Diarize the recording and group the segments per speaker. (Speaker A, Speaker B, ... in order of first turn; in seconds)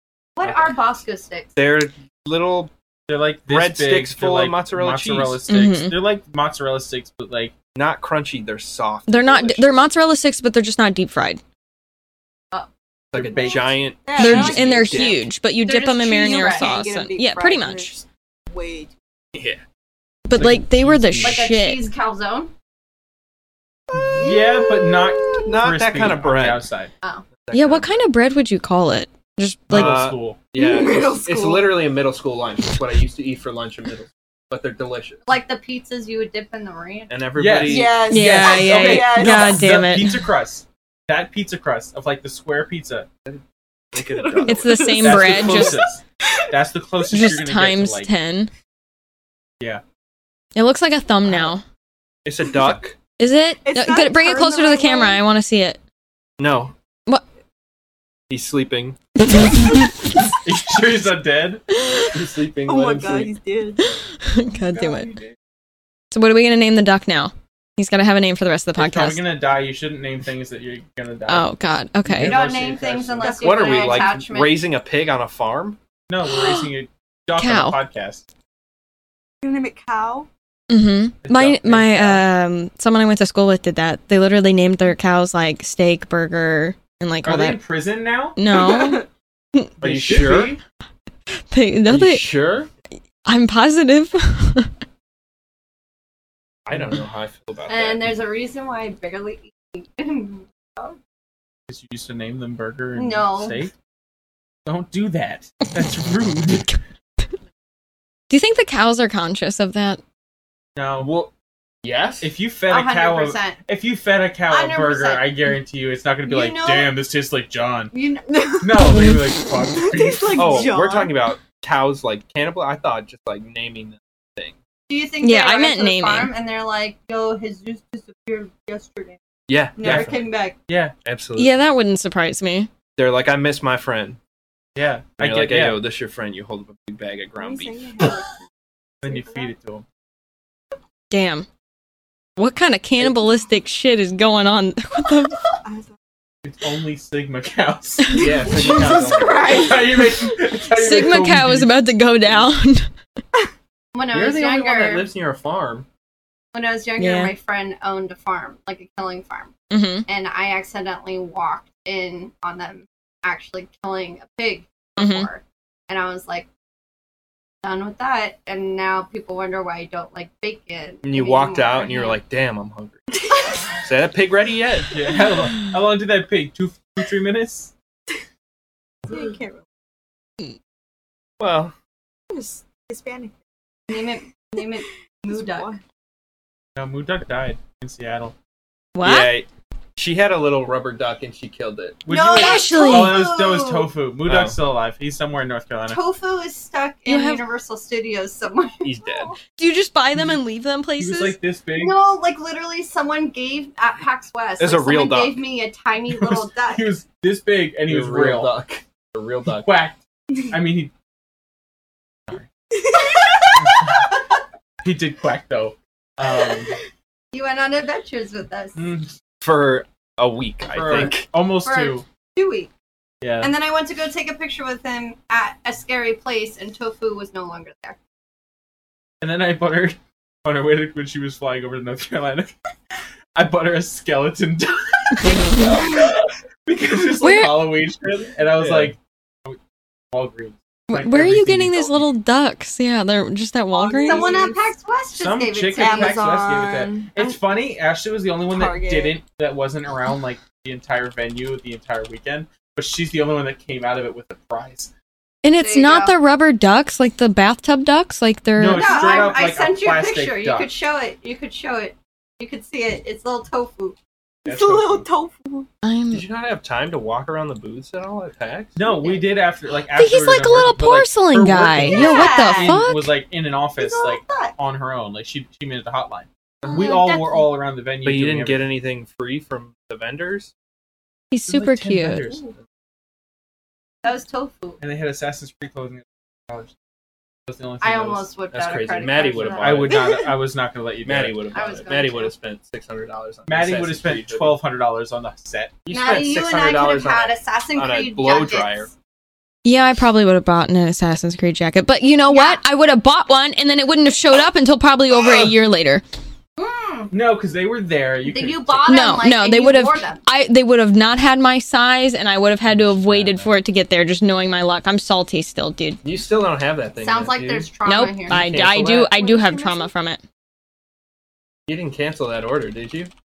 Speaker A: 0.3-1.5, 12.5-13.7, 15.6-16.8, 21.2-22.5, 35.3-37.1, 72.2-74.6, 97.7-101.0, 102.9-103.6, 112.7-113.6, 114.5-115.3, 116.2-117.0, 117.9-118.3, 124.9-129.2, 129.8-130.6, 153.9-155.1, 156.5-159.5, 160.1-166.5, 167.6-172.2, 183.9-185.7, 192.4-192.9, 195.9-198.9, 201.8-206.9, 217.3-218.8, 220.9-222.7, 223.4-228.0, 243.9-246.3, 255.6-256.1, 258.7-264.0, 268.8-269.3, 271.9-272.8, 273.8-274.5, 276.6-277.5, 284.0-284.8, 287.8-290.2, 291.5-292.3, 295.9-298.9, 302.3-302.6, 306.6-307.1, 308.2-310.2, 317.0-318.4
Speaker B: 0.4-0.8, 3.1-7.5, 20.3-21.4, 24.1-26.9, 29.7-30.4, 37.3-43.1, 45.0-48.1, 60.4-61.6, 64.6-65.3, 68.8-71.5, 72.0-73.4, 76.1-78.2, 81.2-82.2, 87.2-88.4, 89.8-90.6, 101.7-103.7, 104.7-106.8, 110.8-111.1, 112.2-117.9, 118.6-120.7, 129.8-130.2, 130.7-130.9, 134.7-135.8, 139.0-139.8, 146.4-151.7, 174.9-177.7, 186.8-188.3, 192.1-196.0, 201.0-202.0, 206.1-208.6, 209.6-210.9, 213.6-214.1, 214.8-216.8, 218.8-219.1, 220.7-222.0, 223.2-223.5, 229.2-232.5, 233.3-239.6, 240.1-242.1, 245.1-254.9, 258.6-260.7, 264.4-265.1, 268.8-278.6, 281.5-282.5, 284.8-286.7, 287.5-288.3, 289.5-291.4, 293.5-295.8, 307.1-309.0, 313.0-313.5
Speaker C: 1.6-2.7, 3.5-5.4, 7.7-9.8, 13.1-15.2, 19.3-19.6, 25.4-26.6, 27.4-27.9, 29.7-35.3, 37.1-38.0, 43.2-45.5, 52.2-53.0, 56.4-56.7, 58.3-59.0, 62.1-63.3, 73.3-75.8, 89.8-90.6, 91.9-92.7, 96.7-98.2, 111.0-111.3, 111.8-112.3, 120.3-124.5, 129.5-130.2, 131.0-131.6, 132.9-134.2, 135.2-138.1, 148.1-149.7, 154.1-155.9, 171.0-173.1, 173.8-174.9, 181.4-181.7, 189.0-192.1, 194.2-194.6, 198.8-199.4, 204.6-205.4, 207.9-209.7, 219.4-221.3, 238.6-238.9, 266.1-268.8, 278.0-280.5, 288.5-290.1, 291.0-294.6, 295.8-298.9, 312.8-313.3, 316.0-317.7, 318.3-319.1, 321.7-323.1
Speaker D: 5.5-6.0, 9.1-11.4, 14.2-18.0, 20.2-21.9, 27.5-30.0, 38.1-40.3, 44.5-45.8, 47.1-48.5, 50.5-51.6, 53.2-55.8, 63.8-65.1, 66.1-69.3, 71.3-72.4, 76.2-76.7, 77.4-77.8, 80.7-87.6, 88.3-89.7, 91.5-92.3, 93.2-94.7, 108.3-110.0, 125.2-126.3, 131.4-132.7, 141.1-141.5, 142.4-145.4, 150.7-152.9, 157.0-157.3, 159.7-160.1, 165.0-165.3, 188.9-189.3, 192.3-193.3, 197.1-197.4, 199.6-201.3, 237.2-237.8, 240.9-244.5, 255.4-259.0, 265.8-266.2, 269.9-273.1, 281.3-282.4, 299.6-306.0, 308.9-316.0, 317.8-320.2
Speaker E: 13.4-15.2, 16.2-18.9, 23.9-25.5, 30.5-31.8, 37.6-39.6, 43.9-45.8, 53.6-55.2, 62.6-63.9, 73.2-74.1, 79.4-80.3, 88.5-89.1, 118.3-121.2, 137.4-138.4, 139.0-139.5, 145.5-145.9, 148.2-150.2, 173.1-173.6, 179.1-179.6, 182.3-183.3, 185.2-185.8, 192.1-193.9, 212.7-213.8, 243.7-244.7, 245.7-247.4, 248.5-249.2, 258.9-259.3, 264.4-265.7, 272.0-272.4, 319.1-319.9